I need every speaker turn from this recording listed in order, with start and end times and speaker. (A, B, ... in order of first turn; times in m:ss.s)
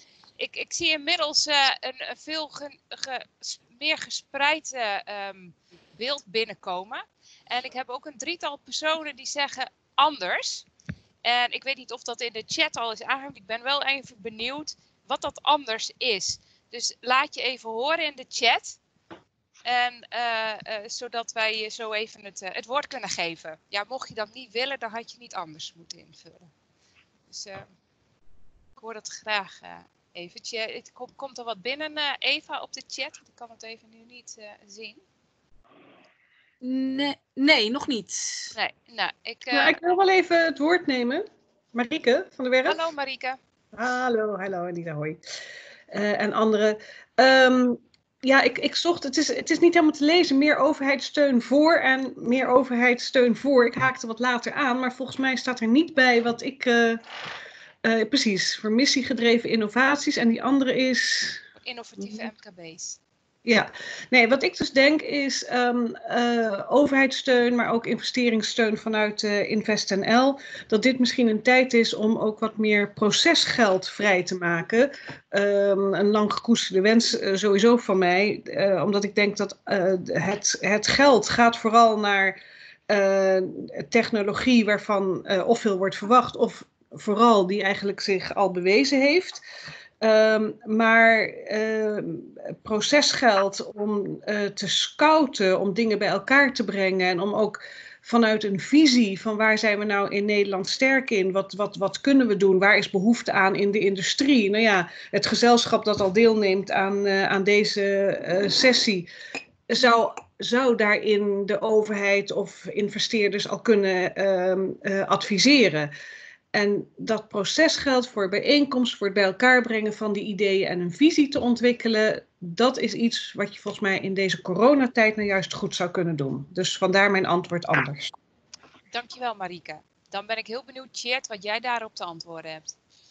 0:00.4-0:10.7 A
0:11.2-0:18.8 A
0:19.6-0:26.5 A
0:27.3-0:27.7 A
0:28.8-0:35.0 A
0:36.6-0:38.6 B
0:38.5-0:39.8 A
0:39.5-0:42.8 C
0:42.6-0:43.4 A
0:43.8-0:45.2 C
0:45.9-0:57.0 C
0:57.8-1:01.4 C
1:01.6-1:03.0 A
1:03.5-1:22.4 C
1:22.9-1:29.4 C
1:30.0-1:49.1 C
1:49.7-1:55.9 C
1:56.5-2:08.1 C
2:08.9-2:12.8 A